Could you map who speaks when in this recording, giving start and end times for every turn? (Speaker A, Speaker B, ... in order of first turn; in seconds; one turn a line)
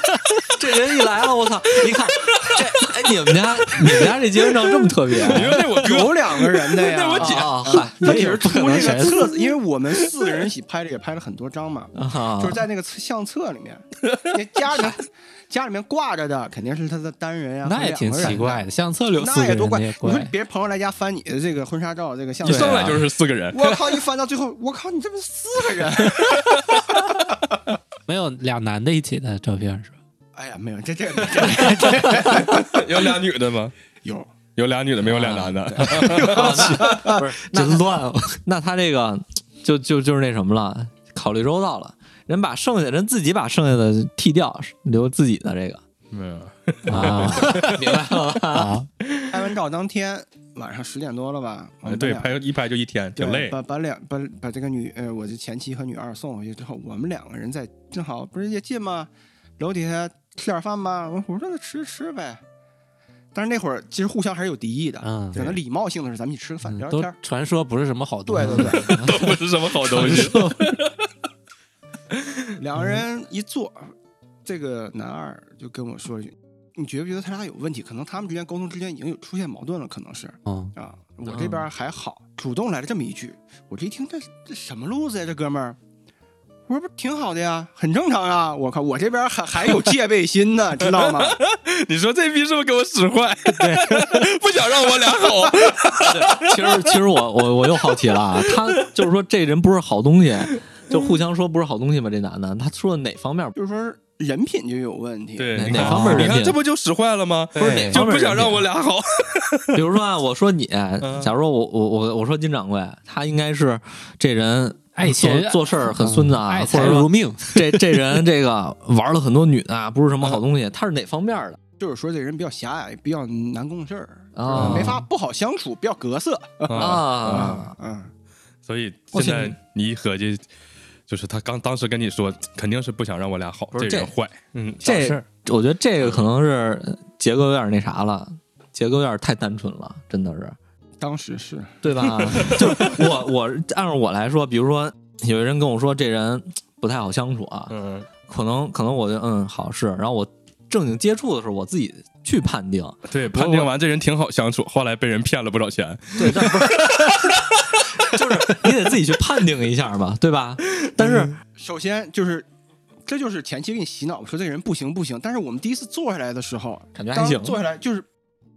Speaker A: 0.5-5.6
Speaker B: 5.2-7.6
Speaker C: 5.3-18.6
Speaker A: 7.2-9.2
Speaker D: 8.0-9.3
Speaker A: 11.9-12.7
Speaker B: 14.1-14.4
Speaker D: 17.6-20.3
Speaker C: 19.2-27.2
Speaker B: 22.4-23.8
Speaker D: 22.5-22.8
Speaker B: 26.3-26.8
Speaker D: 28.1-30.0
Speaker C: 30.4-33.1
Speaker A: 31.7-32.6
Speaker B: 31.8-33.7
Speaker C: 34.0-34.3
Speaker B: 34.6-36.8
Speaker A: 35.0-45.8
Speaker C: 35.7-37.2
Speaker D: 37.5-38.4
Speaker B: 46.1-47.9
Speaker D: 46.9-47.8
Speaker A: 46.9-48.7
Speaker D: 48.4-48.9
Speaker C: 49.3-52.3
Speaker B: 51.9-53.5
Speaker C: 53.2-62.4
Speaker C: 63.3-67.2
Speaker D: 65.0-65.4
Speaker D: 66.7-68.9
Speaker C: 68.3-69.0
Speaker A: 68.5-70.8
Speaker B: 68.8-71.1
Speaker B: 72.1-72.5
Speaker C: 72.6-73.9
Speaker C: 74.5-85.8
Speaker A: 81.3-81.6
Speaker C: 86.7-91.4
Speaker B: 90.8-97.0
Speaker D: 93.5-94.2
Speaker A: 96.0-103.5
Speaker B: 97.8-98.9
Speaker C: 103.5-105.8
Speaker B: 105.4-109.8
Speaker A: 105.5-106.6
Speaker D: 105.7-106.4
Speaker D: 107.6-108.0
Speaker A: 107.6-108.7
Speaker A: 109.7-121.6
Speaker B: 111.0-111.3
Speaker D: 115.0-118.0
Speaker C: 121.8-128.1
Speaker A: 124.3-125.0
Speaker B: 124.6-124.9
Speaker D: 124.6-125.0
Speaker B: 126.7-127.7
Speaker A: 126.7-127.8
Speaker B: 128.7-130.4
Speaker A: 129.2-129.5
Speaker B: 131.1-135.1
Speaker A: 133.7-134.1
Speaker A: 134.8-140.6
Speaker D: 134.8-135.3
Speaker B: 136.0-136.3
Speaker C: 141.0-142.7
Speaker A: 141.8-147.7
Speaker B: 142.4-142.9
Speaker B: 147.7-148.1
Speaker A: 148.2-153.7
Speaker B: 153.1-158.6
Speaker A: 156.2-157.4
Speaker A: 158.0-161.3
Speaker C: 161.0-162.5
Speaker B: 161.0-161.3
Speaker C: 163.1-168.1
Speaker A: 167.0-167.6